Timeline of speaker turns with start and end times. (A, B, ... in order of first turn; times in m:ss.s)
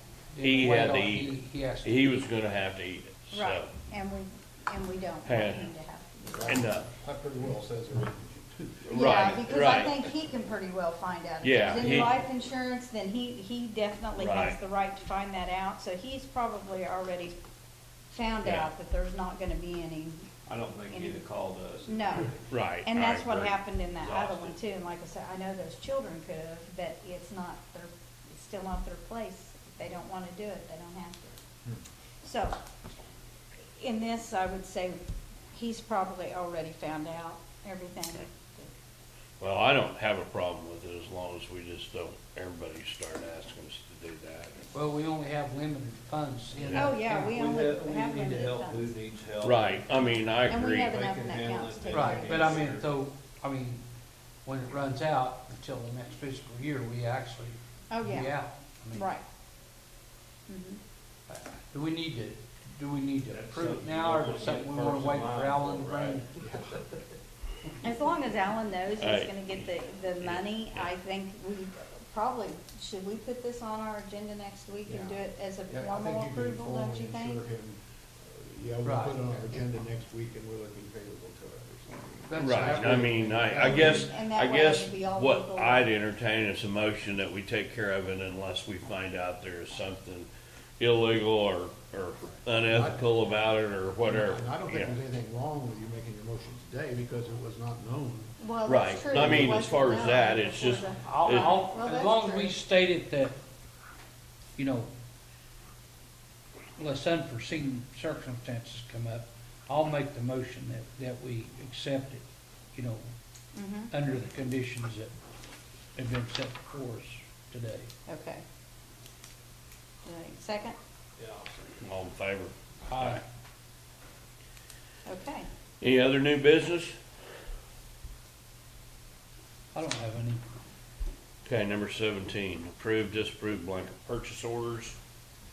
0:00.3-0:02.2 A
0:00.4-0:03.8 B
0:03.3-0:06.6 C
0:05.2-0:05.7 B
0:06.3-0:08.8 D
0:06.5-0:06.9 B
0:08.9-0:10.0 B
0:08.9-0:17.3 C
0:11.4-0:12.2 B
0:14.2-0:14.6 B
0:18.1-0:20.3 C
0:18.4-0:18.7 B
0:20.5-0:22.5 E
0:20.9-0:21.2 C
0:21.8-0:31.4 C
0:22.5-0:23.5 B
0:24.0-0:24.6 E
0:32.2-0:32.5 C
0:33.7-0:35.0 C
0:35.5-0:38.7 C
0:39.4-0:44.6 B
0:44.7-0:47.4 A
0:46.6-0:46.9 B
0:46.7-0:48.9 C
0:47.1-0:50.1 E
0:49.4-0:51.0 B
0:50.5-0:52.6 C
0:50.8-0:52.8 E
0:51.9-0:53.8 A
0:54.4-0:59.1 A
0:57.9-0:58.3 C
0:58.9-0:59.2 C
1:00.5-1:00.8 C
1:01.3-1:06.3 A
1:03.3-1:06.8 E
1:07.8-1:17.4 C
1:09.0-1:09.7 B
1:10.2-1:10.9 B
1:14.9-1:23.8 D
1:18.8-1:19.2 A
1:22.3-1:24.0 A
1:22.4-1:30.3 B
1:23.8-1:25.9 C
1:30.8-1:34.9 B
1:32.7-1:33.0 D
1:34.0-1:38.3 D
1:38.4-1:42.6 C
1:38.6-1:41.6 B
1:41.0-1:43.4 A
1:44.6-1:44.9 A
1:46.8-1:53.0 A
1:53.5-1:53.9 C
1:53.9-1:55.1 A
1:56.0-1:57.9 A
1:58.1-1:58.4 C
2:00.0-2:00.8 C
2:01.8-2:03.2 B
2:02.8-2:03.2 A
2:05.0-2:05.5 C
2:05.8-2:06.9 B
2:09.7-2:10.4 A
2:11.4-2:15.0 B